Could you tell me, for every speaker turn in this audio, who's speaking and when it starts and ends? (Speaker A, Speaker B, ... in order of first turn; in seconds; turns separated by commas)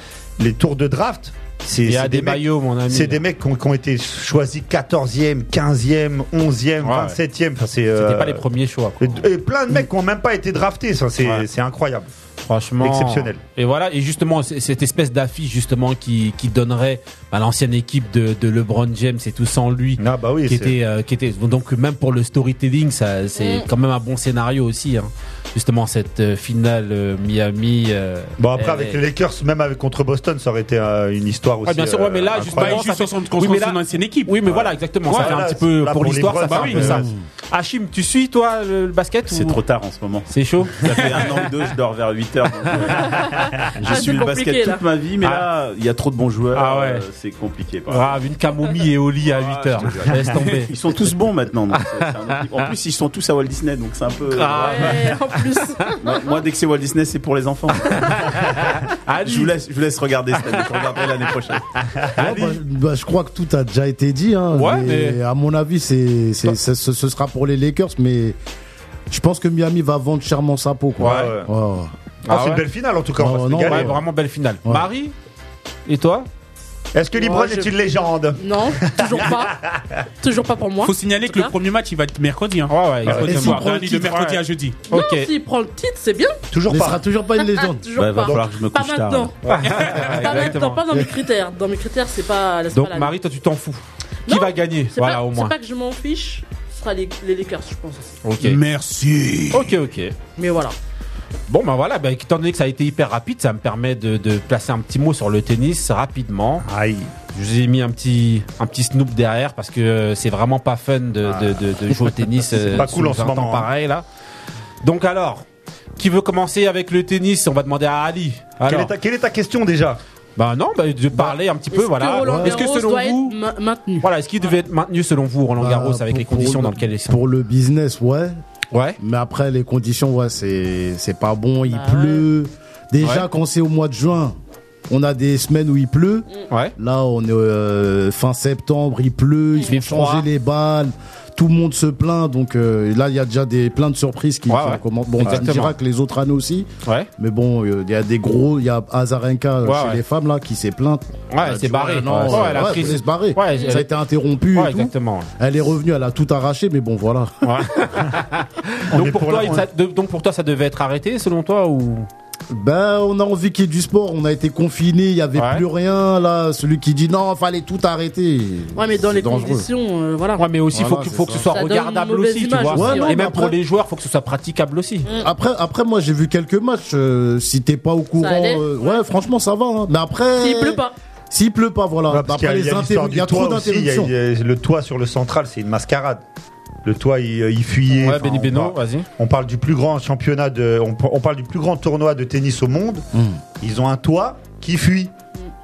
Speaker A: 0.4-8.4, Speaker B: 1.8-3.2, Speaker B: 6.8-7.2, Speaker B: 8.0-9.9, Speaker A: 9.0-12.1, Speaker B: 11.2-11.5, Speaker B: 12.4-29.0, Speaker A: 12.8-13.4, Speaker A: 20.0-20.8, Speaker C: 23.4-23.6, Speaker A: 28.4-32.8, Speaker B: 31.6-39.6, Speaker D: 32.4-34.4, Speaker A: 34.5-37.1, Speaker D: 35.1-35.4, Speaker D: 36.4-37.0, Speaker E: 36.9-37.2, Speaker F: 39.3-43.3, Speaker B: 40.3-41.2, Speaker C: 43.0-44.8, Speaker F: 43.8-48.2, Speaker B: 46.5-47.0, Speaker B: 47.9-50.7, Speaker F: 49.3-55.0, Speaker B: 51.7-52.5, Speaker B: 54.3-56.1, Speaker C: 54.5-55.8, Speaker F: 56.0-58.2, Speaker B: 57.9-59.6, Speaker F: 59.2-61.6, Speaker B: 60.4-61.1, Speaker B: 62.2-62.6, Speaker E: 62.2-68.4, Speaker B: 64.6-65.2, Speaker E: 69.1-71.9, Speaker A: 71.0-71.5, Speaker B: 71.0-71.4, Speaker B: 72.3-72.7, Speaker A: 72.3-74.0, Speaker E: 73.2-74.0, Speaker B: 73.6-75.2, Speaker B: 75.9-76.3, Speaker A: 76.9-79.8, Speaker C: 77.2-77.7, Speaker C: 78.4-79.6, Speaker C: 80.2-81.5, Speaker D: 80.8-84.8, Speaker B: 82.7-85.3, Speaker A: 83.1-83.7, Speaker C: 84.9-86.4, Speaker A: 86.5-87.0, Speaker E: 86.7-87.9, Speaker C: 87.6-89.3, Speaker F: 88.0-89.3, Speaker B: 89.4-90.9, Speaker A: 89.5-90.0, Speaker C: 90.0-93.1, Speaker B: 92.7-95.5, Speaker C: 94.3-98.1, Speaker B: 98.2-98.6, Speaker D: 98.4-99.8, Speaker B: 99.5-100.2, Speaker C: 100.4-100.8, Speaker B: 101.5-106.7, Speaker A: 106.6-107.1, Speaker B: 107.3-114.0, Speaker A: 111.2-113.7, Speaker B: 114.8-115.5, Speaker B: 116.0-118.9, Speaker A: 118.7-120.0, Speaker B: 120.4-123.4, Speaker C: 121.7-124.1, Speaker E: 122.2-122.6, Speaker B: 124.0-127.2, Speaker E: 125.6-128.4, Speaker B: 128.7-129.0, Speaker E: 129.0-134.3, Speaker C: 131.7-132.3, Speaker B: 133.0-133.3, Speaker E: 134.9-157.5, Speaker B: 139.7-140.3, Speaker B: 144.5-145.8, Speaker A: 145.2-145.5, Speaker B: 146.8-147.1, Speaker B: 149.6-150.0, Speaker B: 151.3-153.9, Speaker B: 154.5-155.3, Speaker B: 157.4-162.1, Speaker A: 158.9-159.7, Speaker E: 162.5-169.7, Speaker B: 165.3-165.7, Speaker C: 168.8-170.5, Speaker B: 170.4-175.1, Speaker E: 170.7-171.5, Speaker C: 171.5-173.2, Speaker E: 172.7-173.6, Speaker E: 175.1-184.1, Speaker C: 178.2-179.1, Speaker C: 180.4-180.9, Speaker A: 182.1-186.2, Speaker A: 186.8-193.1, Speaker B: 187.9-189.1, Speaker E: 193.1-193.4, Speaker A: 193.6-195.1